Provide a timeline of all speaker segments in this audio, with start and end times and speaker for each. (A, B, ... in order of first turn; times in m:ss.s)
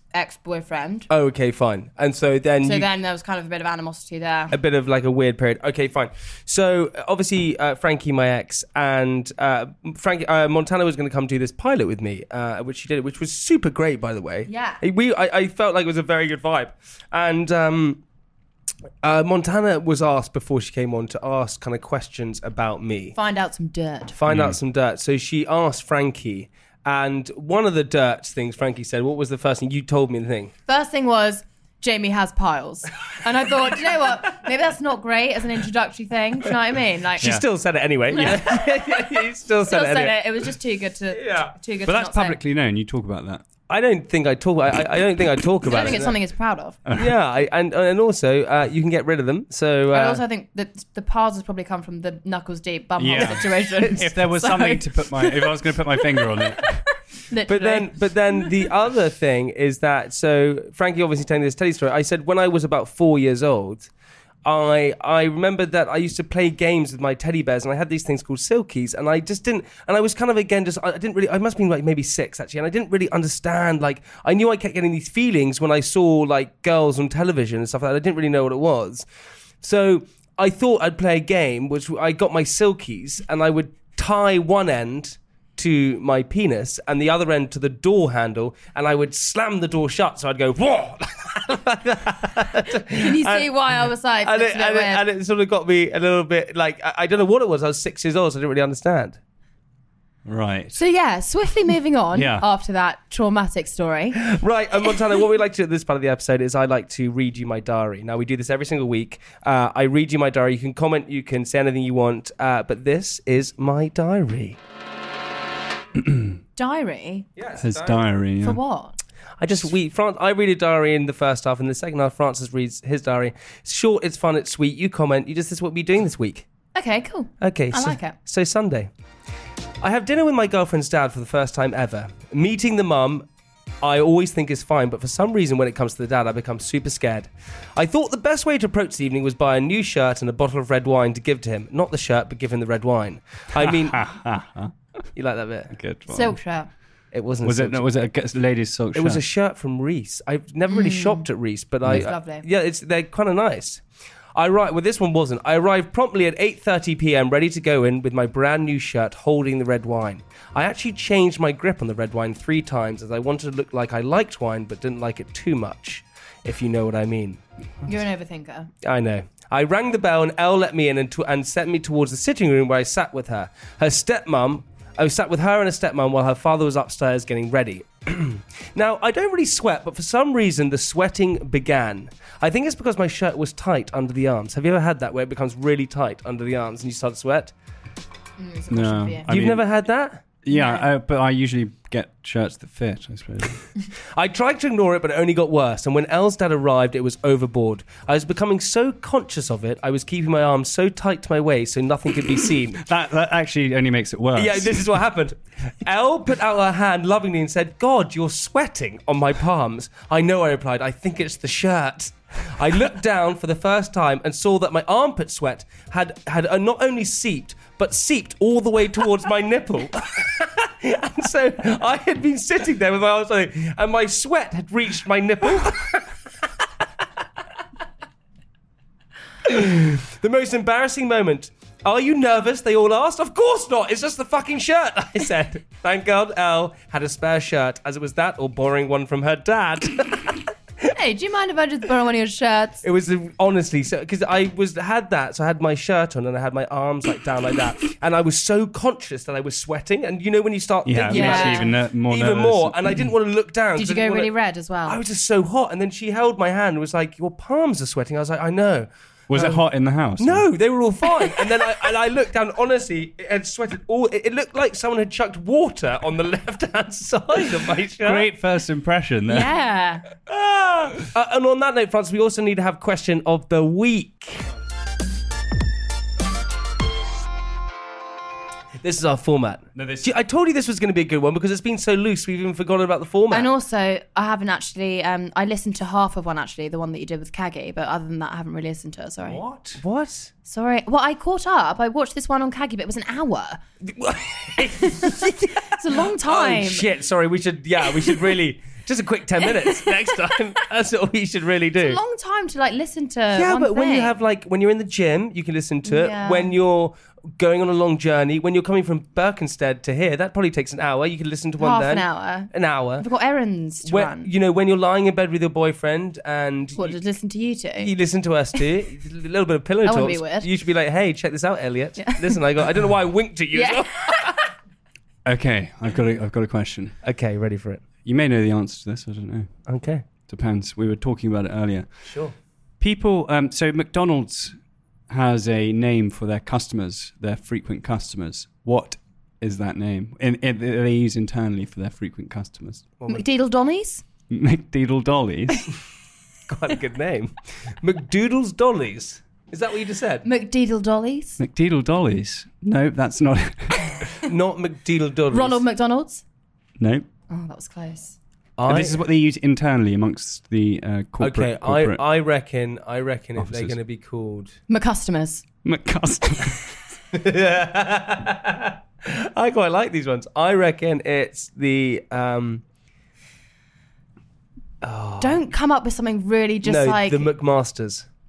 0:00.1-0:01.1 A
0:01.1-0:02.9 B
0:02.6-0:04.6 A
0:04.5-0:18.0 B
0:14.5-0:14.8 A
0:19.0-0:23.2 B
0:23.2-0:24.2 A
0:24.2-0:30.5 B
0:24.3-0:24.6 C
0:30.7-0:37.4 A
0:37.2-0:40.5 B
0:38.1-0:39.0 A
0:39.6-0:42.4 A
0:41.1-0:41.5 B
0:41.8-0:43.4 C
0:43.7-0:46.2 B
0:45.7-0:46.8 A
0:46.9-0:47.1 C
0:47.0-0:50.2 B
0:49.9-0:55.6 A
0:53.0-0:56.8 C
0:56.2-0:57.9 A
0:57.5-1:03.9 B
1:04.4-1:19.0 B
1:19.6-1:33.5 B
1:32.9-1:35.0 A
1:34.2-1:39.2 B
1:40.2-1:40.8 C
1:40.8-1:44.2 A
1:42.1-1:42.5 C
1:44.2-1:54.6 B
1:56.0-1:56.4 C
1:56.6-1:57.3 A
1:57.4-1:58.2 B
1:57.6-1:58.6 C
1:58.4-1:59.0 A
1:59.4-2:06.5 B
2:06.7-2:08.2 A
2:07.4-2:08.9 B
2:09.8-2:13.3 B
2:13.8-2:24.0 B
2:23.5-2:24.7 C
2:25.2-2:25.7 B
2:25.7-2:26.4 C
2:26.1-2:26.7 A
2:27.1-2:27.9 B
2:27.4-2:29.2 C
2:28.9-2:33.8 B
2:30.7-2:31.2 A
2:31.9-2:32.4 A
2:34.4-2:47.4 B
2:47.9-2:48.7 A
2:48.8-3:07.5 B
3:08.4-3:09.3 A
3:08.7-3:09.7 C
3:09.3-3:10.2 B
3:10.4-3:13.6 C
3:10.5-3:10.9 A
3:14.1-3:22.8 B
3:22.8-3:24.9 C
3:24.4-3:46.1 B
3:49.4-4:00.9 B
4:01.0-4:02.8 A
4:02.8-4:14.3 B
4:10.8-4:13.0 C
4:11.1-4:11.7 A
4:13.8-4:15.0 A
4:14.8-4:19.6 B
4:19.3-4:20.5 C
4:20.2-4:28.3 B
4:28.0-4:29.5 C
4:29.3-4:30.0 A
4:30.3-4:34.5 B
4:38.8-4:43.5 B
4:39.8-4:40.1 C
4:43.3-4:49.4 A
4:49.3-4:50.3 B
4:49.5-4:49.8 C
4:50.5-4:53.6 A
4:53.9-5:02.0 B
4:54.6-4:56.8 A
4:59.4-5:00.2 A
5:01.8-5:04.1 A
5:03.3-5:13.1 B
5:05.8-5:06.5 A
5:11.6-5:14.3 A
5:13.8-5:17.0 B
5:16.8-5:17.9 A
5:17.8-5:24.3 B
5:19.8-5:20.5 A
5:22.0-5:22.4 A
5:23.5-5:24.5 A
5:25.2-5:26.9 C
5:27.0-5:27.8 B
5:28.0-5:29.5 C
5:29.7-5:30.0 B
5:30.3-5:31.9 C
5:32.0-5:32.4 B
5:32.8-5:34.6 C
5:35.1-5:42.9 C
5:43.1-5:44.0 A
5:44.3-5:45.7 C
5:46.5-5:50.3 B
5:50.2-5:51.4 A
5:51.4-5:54.0 C
5:54.3-5:55.6 B
5:55.3-5:56.2 A
5:56.8-5:57.1 C
5:57.3-5:58.2 A
5:58.6-5:59.0 B
5:58.7-6:02.0 C
6:01.2-6:04.6 B
6:03.4-6:03.8 C
6:04.7-6:05.4 A
6:05.6-6:06.7 C
6:07.1-6:12.6 B
6:14.8-6:15.4 B
6:15.2-6:17.3 A
6:16.6-6:18.1 B